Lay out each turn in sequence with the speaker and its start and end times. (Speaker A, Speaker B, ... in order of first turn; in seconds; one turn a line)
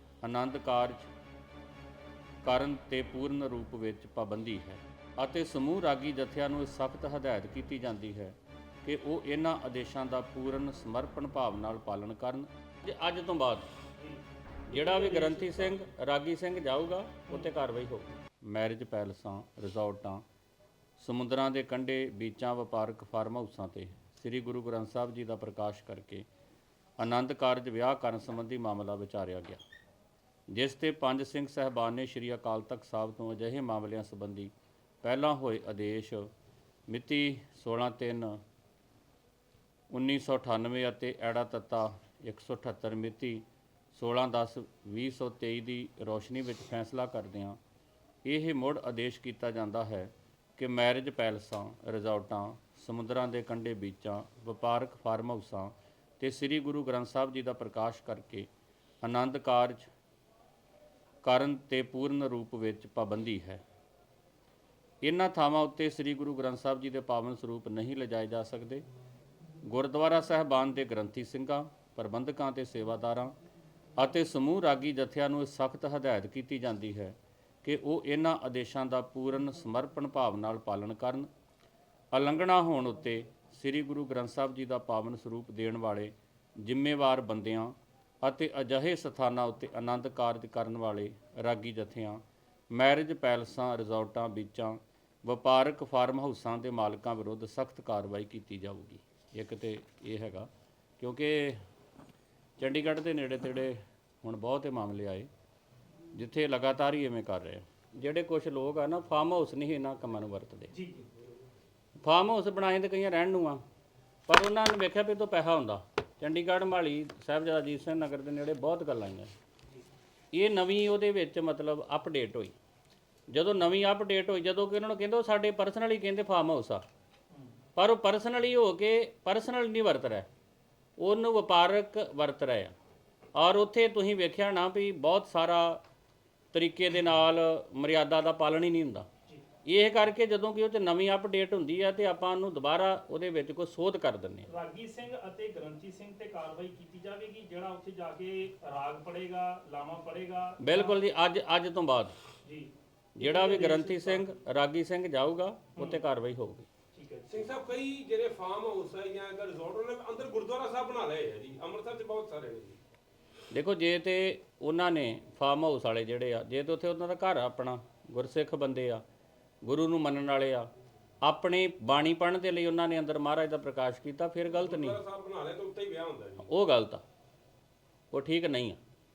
Speaker A: 0.2-1.1
Speaker A: 2.4-13.7
Speaker B: 14.0-15.8
Speaker A: 14.7-20.2
Speaker A: 21.0-26.3
Speaker A: 27.0-29.6
Speaker A: 30.5-36.3
Speaker A: 36.9-38.4
Speaker A: 39.9-47.6
Speaker A: 48.2-58.5
Speaker A: 59.0-59.9
Speaker A: 61.2-63.6
Speaker A: 65.0-68.8
Speaker A: 69.6-73.3
Speaker A: 74.0-81.3
Speaker A: 82.1-101.6
Speaker A: 102.6-105.3
Speaker A: 106.1-110.7
Speaker B: 110.7-111.1
Speaker A: 112.0-113.6
Speaker A: 114.3-119.3
Speaker A: 120.3-122.5
Speaker A: 123.3-126.8
Speaker A: 127.8-130.3
Speaker A: 131.0-132.7
Speaker A: 133.3-135.8
Speaker A: 136.5-139.1
Speaker A: 139.7-144.5
Speaker B: 144.5-151.0
Speaker A: 150.6-152.2
Speaker B: 152.4-154.4
Speaker A: 153.2-156.7
Speaker B: 155.8-156.0
Speaker B: 156.9-157.4
Speaker C: 157.3-162.8
Speaker A: 163.5-169.0
Speaker A: 169.6-170.7
Speaker A: 171.2-175.0
Speaker C: 174.5-176.5
Speaker A: 176.4-177.0
Speaker A: 178.1-178.8